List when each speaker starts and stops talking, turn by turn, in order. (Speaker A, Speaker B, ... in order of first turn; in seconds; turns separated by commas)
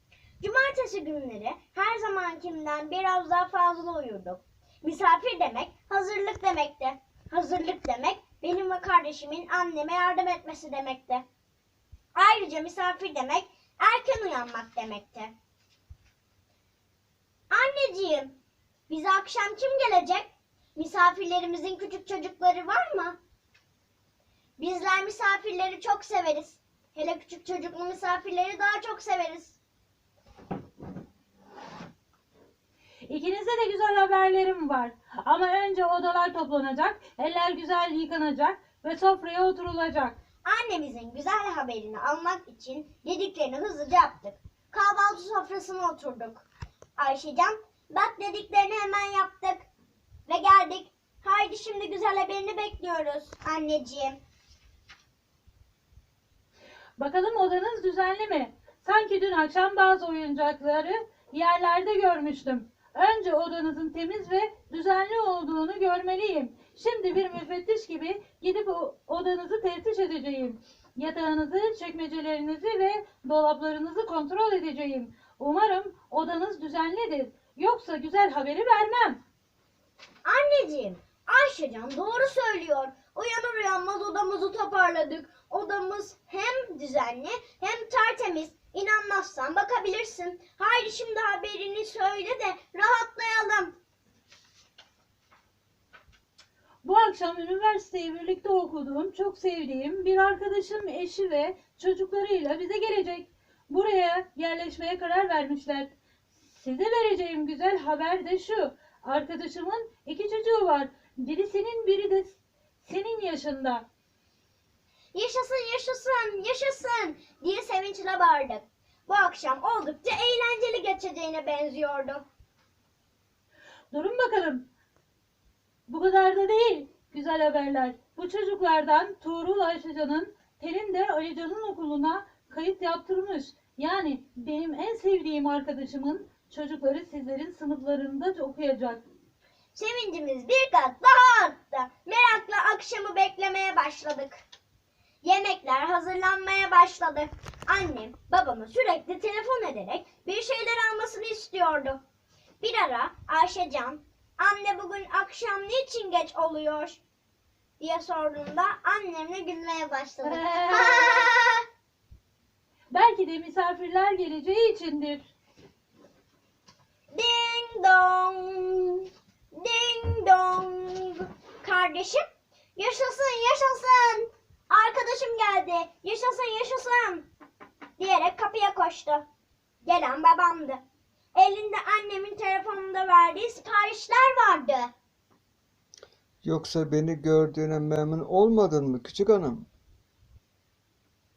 Speaker A: 0.4-11.2, Speaker A: 12.2-15.3, Speaker A: 17.5-18.4, Speaker A: 18.9-23.2, Speaker A: 24.6-29.6, Speaker B: 33.1-40.2, Speaker A: 40.5-46.5, Speaker A: 47.0-49.7, Speaker A: 50.3-54.2, Speaker B: 57.0-79.2, Speaker A: 80.2-93.7, Speaker B: 96.8-105.9, Speaker B: 106.5-113.8, Speaker A: 115.1-122.2, Speaker B: 123.9-124.7, Speaker B: 125.9-139.0, Speaker A: 139.8-144.4, Speaker A: 145.2-152.0, Speaker A: 152.6-157.0, Speaker A: 157.8-161.6, Speaker B: 160.2-161.3, Speaker B: 162.9-165.3, Speaker A: 167.1-172.2, Speaker A: 172.8-177.2, Speaker A: 178.0-179.2, Speaker A: 179.8-180.8, Speaker A: 181.3-184.9, Speaker C: 186.4-189.7